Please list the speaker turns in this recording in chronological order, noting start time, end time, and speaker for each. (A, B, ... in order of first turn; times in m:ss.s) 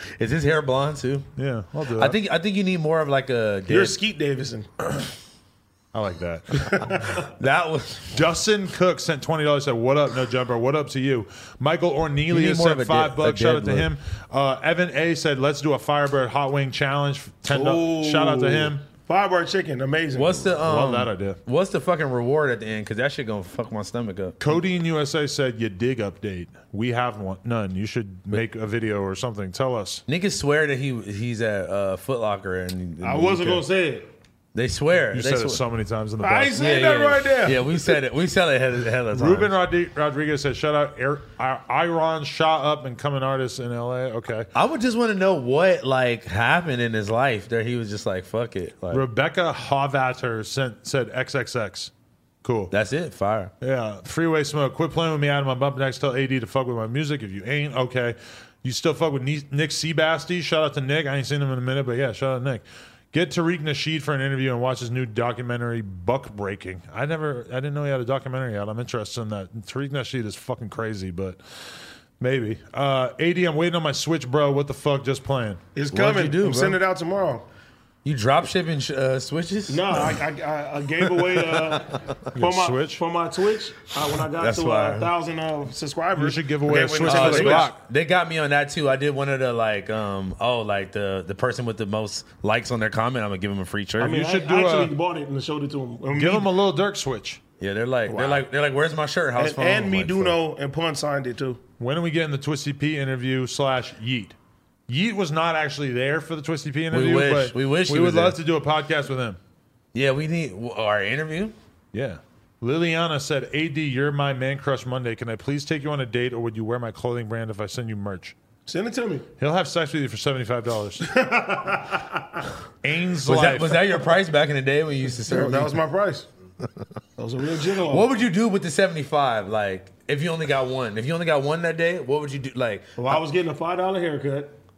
0:00.2-0:01.3 A
0:01.4-0:02.2 B
0:02.0-0:04.0 A
0:03.7-0:04.7 C
0:05.9-0:07.2 B
0:06.6-0:07.2 C
0:07.2-0:08.1 A
0:08.1-0:18.8 B
0:12.3-0:13.9 A
0:17.5-0:20.5 C
0:20.1-0:24.4 A
0:20.6-0:21.4 B
0:24.4-0:30.0 B
0:30.1-0:33.6 A
0:33.0-0:34.1 C
0:34.5-0:35.6 A
0:35.1-0:36.6 B
0:36.2-0:38.0 C
0:36.5-0:39.5 A
0:39.1-0:44.5 B
0:44.5-0:49.0 A
0:48.9-0:51.9 B
0:52.4-0:52.7 B
0:52.7-0:53.5 A
0:53.6-1:11.4 B
1:12.2-1:15.6 B
1:15.7-1:17.4 C
1:15.9-1:16.8 A
1:18.0-1:20.2 A
1:19.7-1:27.7 C
1:21.4-1:22.0 A
1:22.3-1:23.0 B
1:24.4-1:25.1 A
1:26.1-1:27.8 B
1:27.0-1:34.2 A
1:34.0-1:36.5 C
1:34.0-1:34.9 B
1:36.1-1:37.4 B
1:37.6-1:40.4 A
1:38.1-1:38.4 C
1:39.4-1:41.6 C
1:41.8-1:44.4 B
1:44.9-1:49.4 B
1:46.9-1:48.4 A
1:49.9-1:51.5 A
1:51.9-1:58.4 B
1:58.7-1:59.3 C
1:59.4-2:01.1 B
2:01.1-2:02.3 C
2:02.8-2:04.0 B
2:03.2-2:05.8 A
2:05.3-2:06.3 C
2:07.2-2:08.1 C
2:07.8-2:12.9 A
2:13.0-2:14.6 C